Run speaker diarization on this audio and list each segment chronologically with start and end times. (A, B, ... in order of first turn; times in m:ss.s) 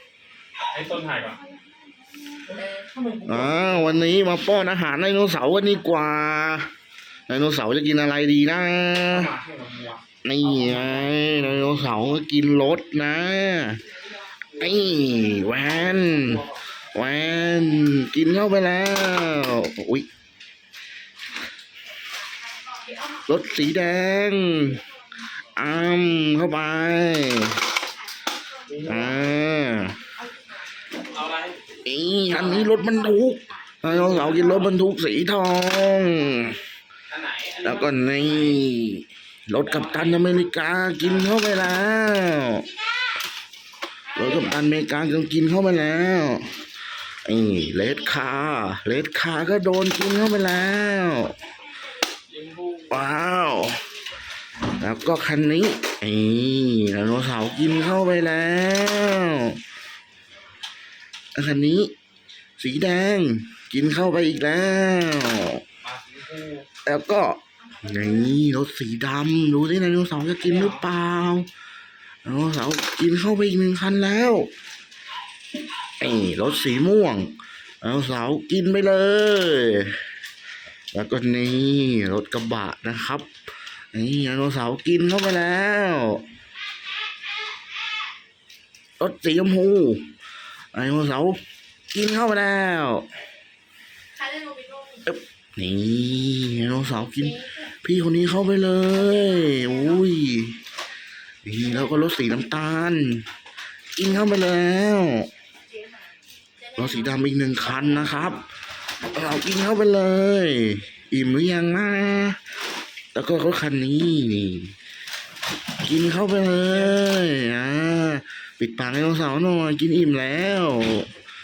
0:00.7-0:01.4 A
0:02.5-0:04.0 A
0:03.2-0:06.7 B
0:07.3-0:09.3 B
0:09.1-0:11.4 A
0:10.2-0:13.9 B
0:14.5-0:16.6 A
0:14.6-0:20.1 B
0:22.7-0:23.1 C
0:23.2-0:24.8 B
0:25.5-0:27.7 B
0:28.7-0:29.4 A
0:28.8-0:30.0 B
0:31.0-0:31.7 A
0:31.8-0:36.6 B
0:32.3-0:32.6 A
0:33.8-0:34.7 A
0:37.1-0:38.6 A
0:37.6-0:42.7 B
0:39.6-0:40.4 A
0:41.0-0:41.3 A
0:44.1-0:46.6 B
0:47.2-0:51.4 B
0:52.3-0:53.0 A
0:52.9-0:53.8 B
0:54.7-0:59.6 B
1:01.3-1:01.9 B
1:02.6-1:05.6 B
1:05.8-1:06.7 A
1:06.8-1:11.5 B
1:10.4-1:10.8 A
1:12.2-1:14.5 B
1:16.0-1:20.0 B
1:20.9-1:23.3 B
1:23.9-1:26.2 B
1:29.0-1:30.1 B
1:30.7-1:31.4 B
1:31.9-1:33.1 B
1:34.2-1:35.0 C
1:35.0-1:40.6 B
1:41.4-1:43.3 B
1:43.9-1:45.3 B
1:45.7-1:46.8 C
1:46.7-1:48.4 B
1:49.1-1:52.4 B
1:53.1-1:54.7 B
1:55.8-2:01.1 B